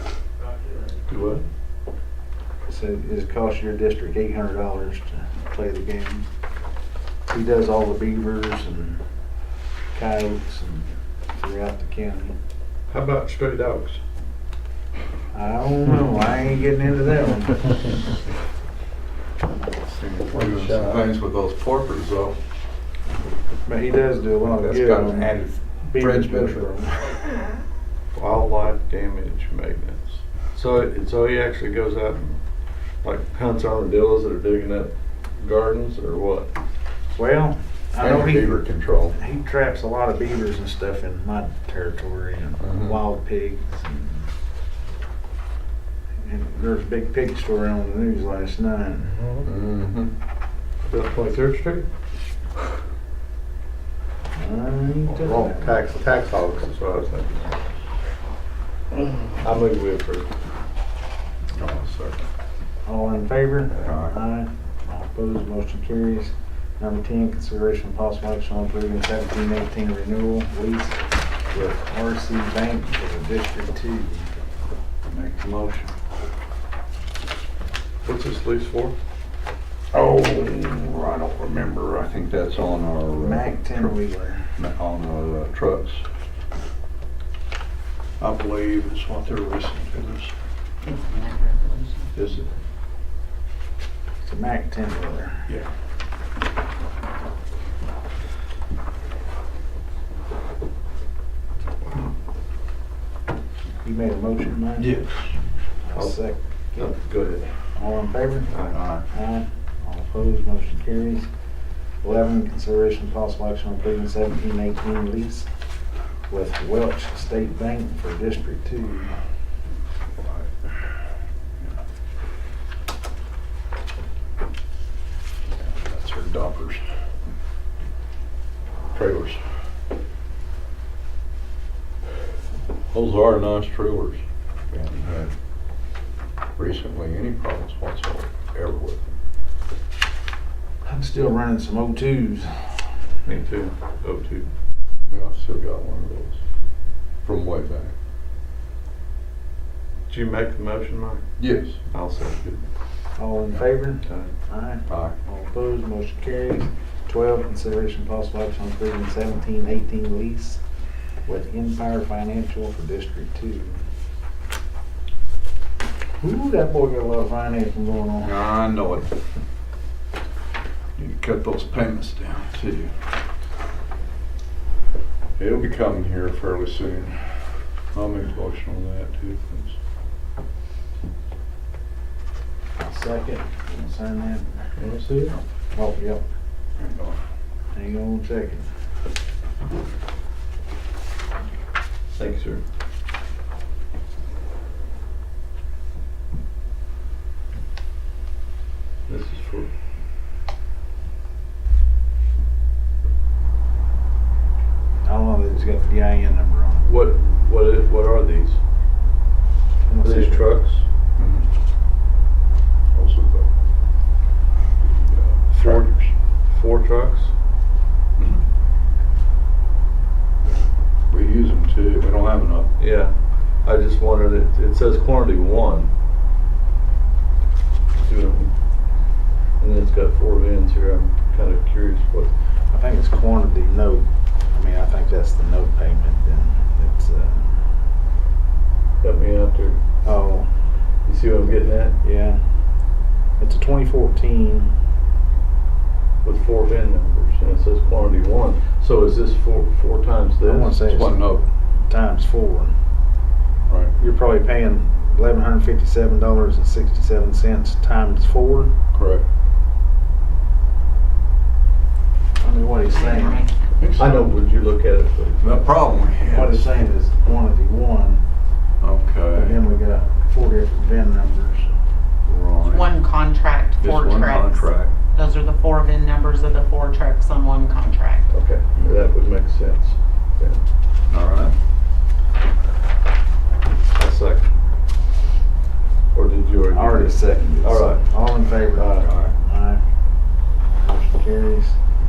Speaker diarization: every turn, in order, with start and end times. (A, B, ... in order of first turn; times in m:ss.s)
0:01.1-0:01.4 A
0:02.7-0:06.3 B
0:07.3-0:09.0 B
0:09.9-0:12.4 B
0:12.9-0:14.0 A
0:15.3-0:17.9 B
0:19.7-0:22.4 C
0:20.3-0:21.1 A
0:23.6-0:26.9 B
0:24.4-0:27.1 C
0:28.2-0:32.4 A
0:33.0-0:36.5 A
0:37.2-0:38.6 B
0:38.0-0:39.2 C
0:39.1-0:44.3 B
0:42.6-0:43.0 C
0:46.2-0:49.2 B
0:49.1-0:49.5 A
0:49.4-0:50.1 C
0:50.8-0:51.9 A
0:54.3-0:55.8 B
0:55.1-0:57.6 A
0:58.9-1:00.3 A
1:01.5-1:02.2 C
1:02.8-1:14.3 B
1:03.8-1:04.2 C
1:15.1-1:15.9 C
1:18.0-1:19.0 A
1:19.9-1:24.0 C
1:23.2-1:24.5 B
1:24.6-1:26.0 C
1:28.2-1:30.3 C
1:30.8-1:32.1 D
1:32.1-1:32.5 C
1:34.2-1:35.5 B
1:43.8-1:45.0 B
1:44.8-1:45.3 C
1:45.8-1:46.9 B
1:46.8-1:47.5 A
1:47.8-1:48.5 B
1:48.5-1:48.8 A
1:48.7-1:49.1 C
1:49.1-1:51.3 B
1:52.0-1:55.5 B
1:56.3-1:59.1 B
2:00.2-2:00.8 C
2:05.5-2:06.8 C
2:08.9-2:09.4 C
2:12.9-2:15.3 C
2:16.6-2:19.0 C
2:20.8-2:22.8 B
2:23.2-2:24.5 A
2:25.1-2:26.4 C
2:27.2-2:27.9 C
2:30.1-2:31.2 A
2:31.4-2:31.8 C
2:31.8-2:32.4 A
2:33.2-2:40.6 B
2:34.0-2:34.3 A
2:34.9-2:35.1 C
2:41.2-2:43.8 B
2:46.2-2:48.4 B
2:48.2-2:49.1 C
2:51.0-2:52.9 C
2:55.4-2:57.2 C
2:57.9-2:59.8 C
3:02.8-3:04.6 B
3:04.8-3:05.4 A
3:05.7-3:06.2 B
3:06.8-3:07.2 C
3:07.7-3:08.7 B
3:12.2-3:12.6 A
3:19.1-3:19.7 A
3:25.0-3:26.9 B
3:26.8-3:28.6 A
3:29.8-3:30.6 B
3:30.0-3:30.8 A
3:31.2-3:31.5 C
3:32.9-3:33.5 C
3:34.8-3:36.1 C
3:35.5-3:35.9 A
3:36.5-3:37.3 A
3:41.1-3:42.7 C
3:42.8-3:43.1 A
3:43.6-3:45.9 A
3:48.0-3:48.5 A
3:49.6-3:52.3 A
3:52.7-3:57.6 B
3:59.0-3:59.8 A
4:00.0-4:00.5 B
4:01.1-4:02.0 A
4:02.0-4:02.4 B
4:03.4-4:04.7 B
4:06.2-4:10.8 A
4:10.4-4:11.3 B
4:10.9-4:11.5 C
4:11.9-4:12.7 B
4:13.7-4:13.9 C
4:14.0-4:18.7 B
4:18.9-4:19.2 C
4:22.4-4:23.4 B
4:22.9-4:23.5 D
4:23.8-4:24.4 C
4:24.0-4:25.7 A
4:25.4-4:26.7 C
4:26.3-4:28.2 B
4:28.8-4:29.6 C
4:29.3-4:31.7 B
4:32.2-4:32.9 C
4:32.6-4:38.3 D
4:33.8-4:34.9 C
4:38.3-4:40.6 A
4:41.1-4:41.6 C
4:44.0-4:44.5 A
4:46.1-4:48.0 A
4:46.7-4:49.8 B
4:48.8-4:49.1 A
4:49.0-4:49.4 C
4:50.8-4:51.8 B